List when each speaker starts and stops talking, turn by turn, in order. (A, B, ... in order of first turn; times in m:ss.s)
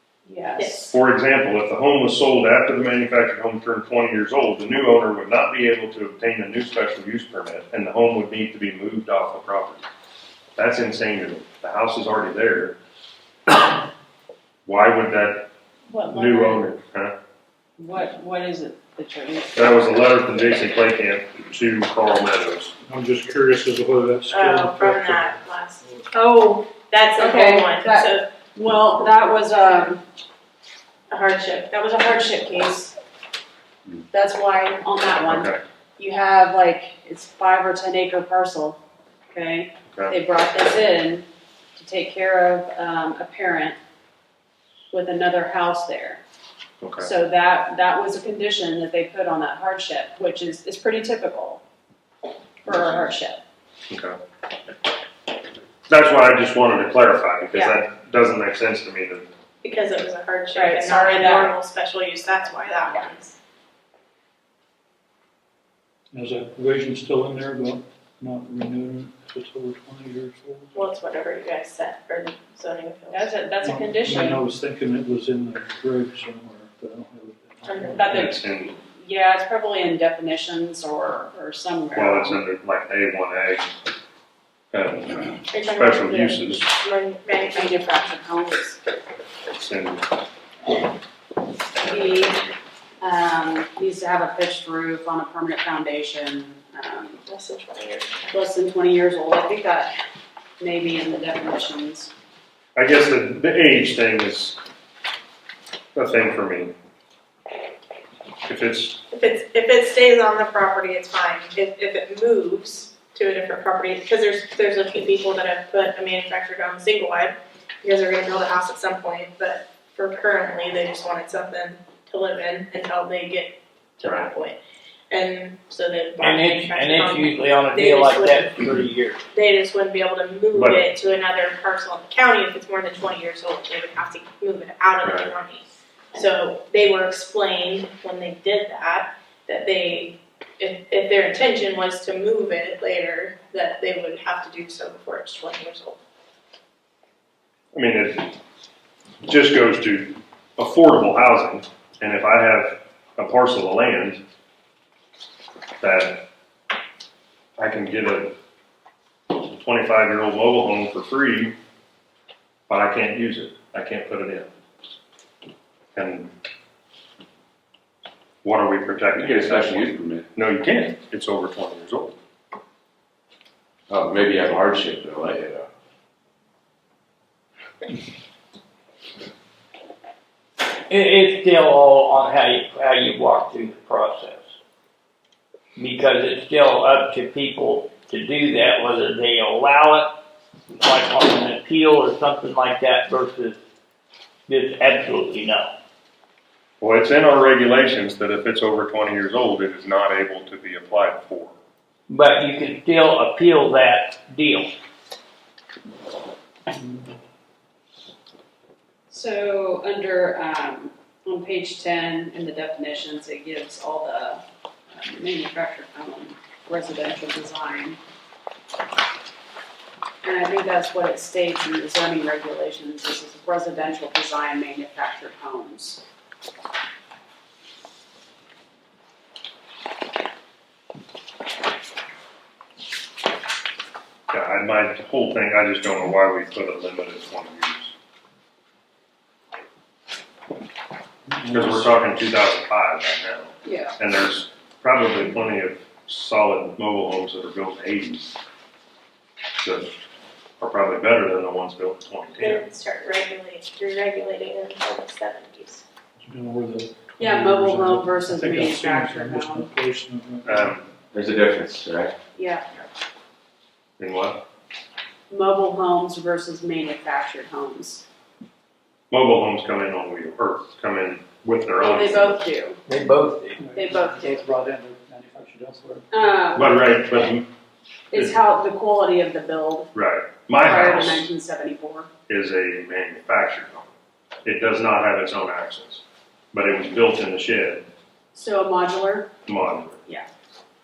0:00.2-0:00.9 A
0:00.6-0:00.9 B
0:00.9-0:09.8 C
0:10.6-0:12.8 C
0:14.6-0:15.5 C
0:15.9-0:16.6 B
0:16.1-0:17.2 C
0:17.8-0:20.2 A
0:19.6-0:22.7 C
0:22.8-0:26.1 D
0:24.3-0:25.8 B
0:26.1-0:30.0 A
0:26.8-0:28.3 B
0:31.1-0:31.7 B
0:31.6-0:33.0 A
0:34.1-0:38.8 A
0:35.2-0:35.6 C
0:39.3-0:43.8 A
0:39.9-0:40.1 C
0:44.9-0:46.2 A
0:46.8-0:47.1 C
0:47.0-0:51.6 A
0:52.6-0:53.4 A
0:52.7-0:53.1 C
0:53.9-0:54.2 C
0:55.9-0:59.3 C
0:57.5-0:57.8 A
0:59.6-1:03.4 B
1:00.5-1:01.6 A
1:02.8-1:03.1 A
1:06.1-1:10.7 D
1:10.7-1:13.3 B
1:13.1-1:14.4 A
1:13.6-1:18.2 D
1:17.7-1:18.0 B
1:18.0-1:22.4 A
1:18.0-1:18.8 C
1:21.9-1:23.7 C
1:24.7-1:26.6 C
1:25.5-1:27.9 B
1:27.4-1:28.8 A
1:29.5-1:30.0 C
1:31.8-1:32.4 A
1:33.0-1:37.2 A
1:37.3-1:38.3 B
1:38.3-1:40.0 A
1:40.6-1:42.1 A
1:42.8-1:44.6 C
1:46.0-1:46.7 C
1:48.4-1:49.0 C
1:49.1-2:04.6 B
2:05.1-2:08.6 B
2:06.2-2:09.2 E
2:09.3-2:26.0 B
2:10.5-2:10.8 C
2:15.0-2:15.3 C
2:27.7-2:28.4 C
2:29.2-2:34.2 C
2:35.8-2:36.2 C
2:37.6-2:38.4 C
2:39.3-2:41.6 C
2:42.7-2:44.5 C
2:45.9-2:46.3 C
2:48.4-2:52.1 C
2:49.2-2:50.2 F
2:53.9-2:55.7 F
3:00.9-3:04.5 E
3:05.8-3:10.1 E
3:10.8-3:13.6 E
3:14.5-3:15.7 E
3:16.8-3:21.5 C
3:22.1-3:24.7 E
3:29.1-3:34.4 A
3:34.9-3:38.0 A
3:40.2-3:46.0 A
3:54.3-3:57.9 C
4:01.3-4:01.9 D
4:01.5-4:08.3 C
4:03.6-4:04.0 A
4:09.6-4:09.9 C
4:10.6-4:12.6 C
4:12.4-4:15.8 B
4:16.2-4:20.8 D
4:17.2-4:19.7 A
4:20.4-4:20.9 C
4:21.1-4:22.1 F
4:22.3-4:22.6 A
4:24.0-4:24.4 C
4:25.3-4:28.0 A
4:29.1-4:32.4 C
4:31.8-4:32.8 A
4:32.9-4:33.6 E
4:33.6-4:36.1 D
4:33.7-4:34.5 A
4:36.1-4:36.9 A
4:36.5-4:37.5 C
4:38.1-4:39.9 A
4:39.9-4:41.3 C
4:40.5-4:42.1 A
4:42.3-4:43.9 C
4:44.4-4:47.9 C
4:48.3-4:49.3 A
4:49.5-4:50.0 C